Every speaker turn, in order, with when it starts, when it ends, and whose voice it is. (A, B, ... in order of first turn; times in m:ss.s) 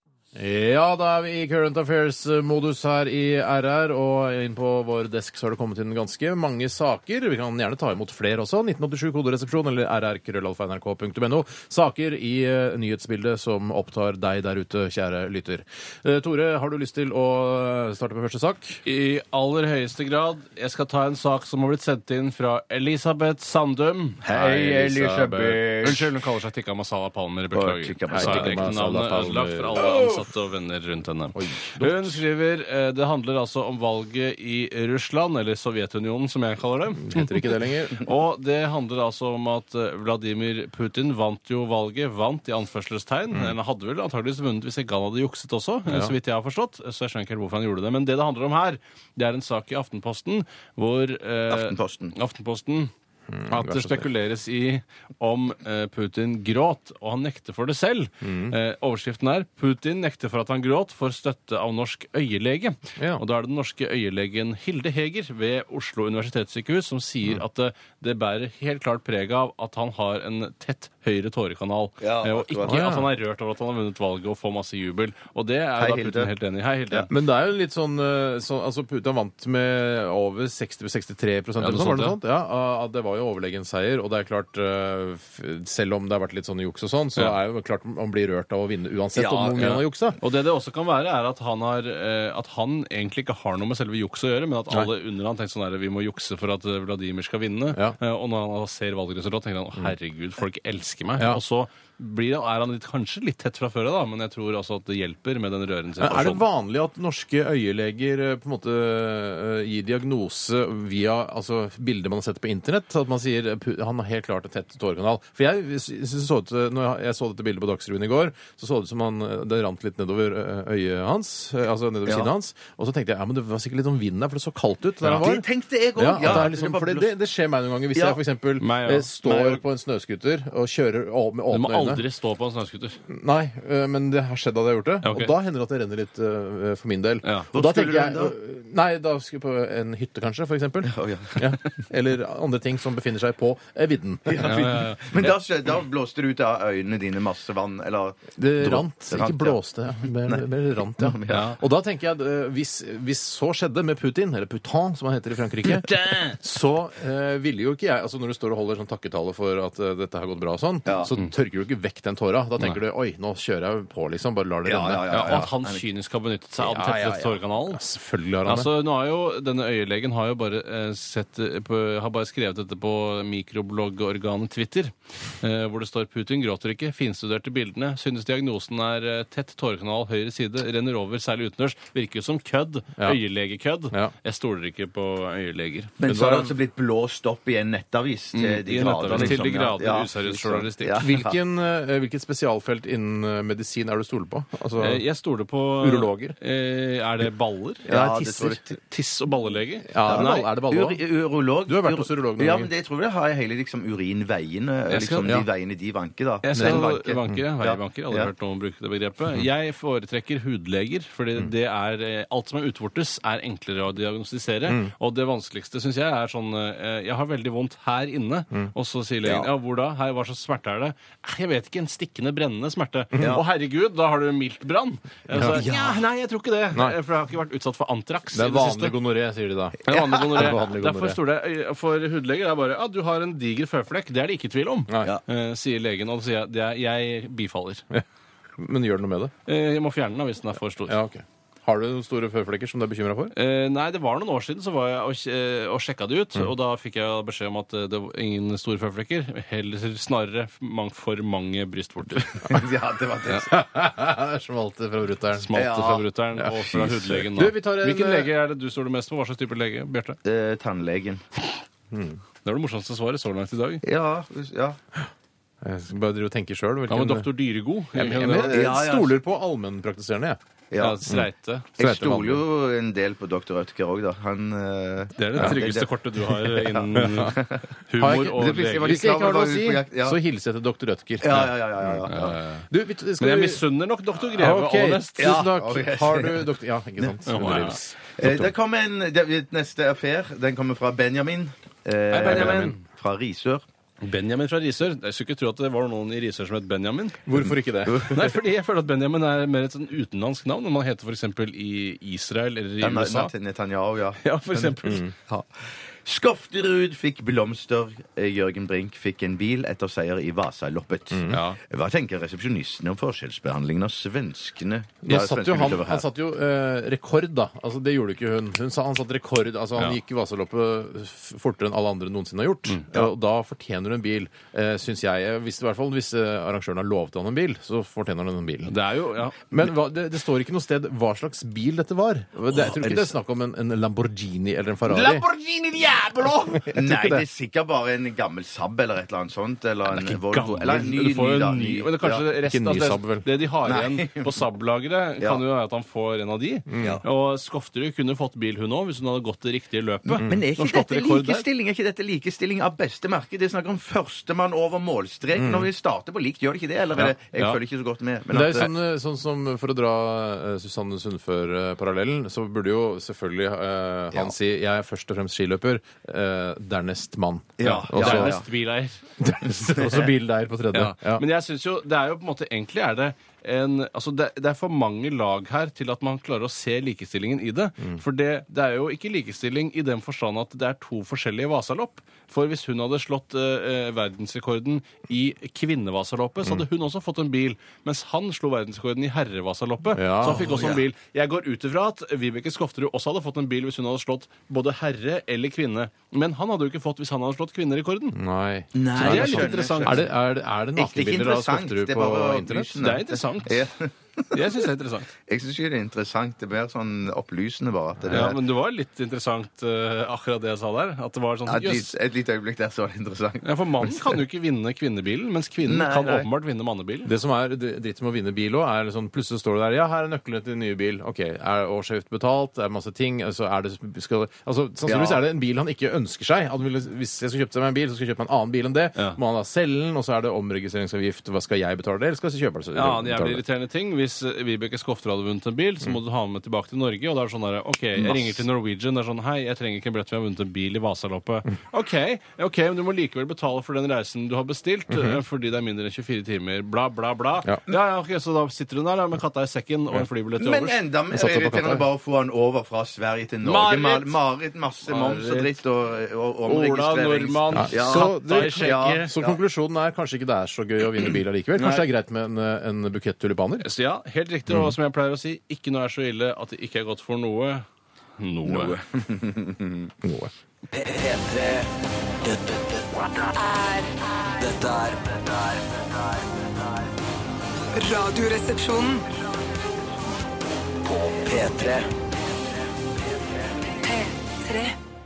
0:00.3-0:18.8 A
0:18.8-0:52.9 B
0:24.2-0:26.1 C
0:24.4-0:25.6 A
0:27.5-0:28.7 C
0:28.1-0:30.0 A
0:29.8-0:30.1 C
0:31.3-0:32.2 A
0:37.0-0:38.0 A
0:43.3-0:43.6 A
0:45.9-0:46.1 A
0:51.5-0:52.1 C
0:53.3-0:54.1 A
0:53.5-1:17.1 B
0:58.2-0:58.6 A
1:12.0-1:12.8 C
1:12.6-1:13.1 A
1:15.8-1:16.3 C
1:17.1-1:30.2 A
1:21.6-1:22.2 B
1:29.2-1:29.6 C
1:29.6-1:46.4 B
1:41.2-1:41.4 A
1:46.0-2:05.4 A
2:05.1-2:07.1 C
2:06.0-2:12.0 A
2:07.9-2:08.2 C
2:08.6-2:09.6 B
2:11.5-2:13.0 B
2:13.1-2:24.6 A
2:15.0-2:15.3 B
2:17.2-2:17.5 B
2:17.5-2:18.3 C
2:20.8-2:21.5 C
2:24.2-2:29.6 C
2:24.4-2:25.4 B
2:28.4-2:45.5 A
2:30.2-2:31.5 C
2:31.3-2:31.6 B
2:35.7-2:36.4 B
2:40.8-2:41.1 C
2:44.6-2:45.8 C
2:45.1-2:47.8 B
2:46.6-2:48.7 A
2:48.4-3:06.0 B
3:06.0-3:11.3 C
3:06.0-3:06.5 A
3:08.3-3:11.1 B
3:11.0-3:15.0 A
3:14.8-3:20.5 B
3:15.8-3:16.4 A
3:17.9-3:18.7 C
3:17.9-3:18.5 A
3:19.9-3:21.0 A
3:20.0-3:28.3 C
3:21.7-3:22.7 A
3:24.9-3:25.3 B
3:26.4-3:49.0 B
3:26.5-3:27.4 A
3:34.6-3:34.9 A
3:43.2-3:43.4 C
3:45.3-3:45.6 A
3:45.4-3:46.0 C
3:48.3-3:51.2 A
3:49.9-3:57.8 B
3:49.9-3:50.2 C
3:58.6-3:59.3 A
3:59.4-4:01.0 B
4:00.9-4:03.3 A
4:03.3-4:12.5 B
4:12.4-4:13.5 C
4:13.3-4:15.5 A
4:15.4-4:20.2 B
4:15.5-4:16.0 C
4:16.4-4:16.6 A
4:17.2-4:18.3 A
4:20.2-4:21.2 C
4:21.9-4:22.2 A
4:22.4-4:23.8 B
4:23.8-4:24.8 C
4:25.6-4:27.3 A
4:26.9-4:28.6 B
4:27.9-4:30.4 A
4:28.4-4:29.2 C
4:30.7-4:31.0 C
4:30.8-4:31.7 B
4:31.1-4:32.4 A
4:31.8-4:35.9 C
4:35.2-4:39.0 B
4:36.4-4:40.2 C
4:36.9-4:37.3 A
4:38.0-4:42.0 A
4:41.2-4:42.4 C
4:42.1-4:42.6 B
4:42.7-4:43.6 A
4:43.2-4:45.4 B
4:44.3-4:48.5 A
4:45.2-4:47.1 C
4:47.2-4:47.8 B
4:48.2-4:53.6 C
4:52.1-4:52.8 B
4:52.2-4:52.7 A
4:54.0-4:57.2 B
4:57.2-4:58.1 A
4:57.8-4:58.3 C
4:58.1-5:03.3 B
5:02.8-5:04.6 C
5:04.2-5:05.0 B
5:04.8-5:05.1 A
5:05.3-5:16.0 C
5:11.1-5:11.4 A
5:11.3-5:11.6 B
5:15.0-5:28.7 A
5:22.7-5:23.0 B
5:28.6-5:29.6 B
5:29.5-5:35.3 A
5:32.5-5:33.1 C
5:35.8-5:37.2 A
5:36.7-5:42.2 C
5:39.9-5:51.4 B
5:42.4-5:43.2 A
5:43.6-5:44.3 C
5:46.7-5:47.0 A
5:50.0-5:58.7 C
5:55.3-5:55.7 A
5:57.0-5:57.6 A
5:58.3-6:08.4 A
6:07.6-6:08.4 C
6:07.6-6:09.0 B
6:09.2-6:11.2 A
6:09.6-6:10.0 B
6:10.7-6:38.2 B
6:29.9-6:30.6 A
6:30.4-6:30.8 C
6:38.1-6:42.8 A
6:38.7-6:40.0 C
6:38.9-6:40.0 B
6:40.8-6:44.4 C
6:42.8-6:43.7 B
6:44.3-6:45.1 B
6:45.3-6:48.4 C
6:48.1-6:51.9 B
6:51.4-6:54.1 C
6:53.4-6:57.1 B
6:55.6-6:56.3 C
6:57.0-7:13.4 A
7:04.9-7:05.2 C
7:12.7-7:30.8 B
7:18.0-7:18.4 A
7:24.9-7:25.2 A
7:30.4-7:39.4 C
7:31.1-7:31.8 A
7:33.4-7:34.1 B
7:34.8-7:35.5 B
7:36.5-7:39.1 B
7:37.5-7:43.7 A
7:41.6-7:41.8 C
7:43.6-7:47.6 B
7:44.5-7:44.8 A
7:48.2-7:48.8 B
7:48.4-7:49.9 C
7:50.0-7:50.3 A
7:50.7-7:51.7 D
7:52.2-7:53.3 D
7:53.3-7:54.4 E
7:54.4-7:56.5 D
7:57.7-7:59.0 E
8:00.8-8:01.9 D
8:03.8-8:04.8 E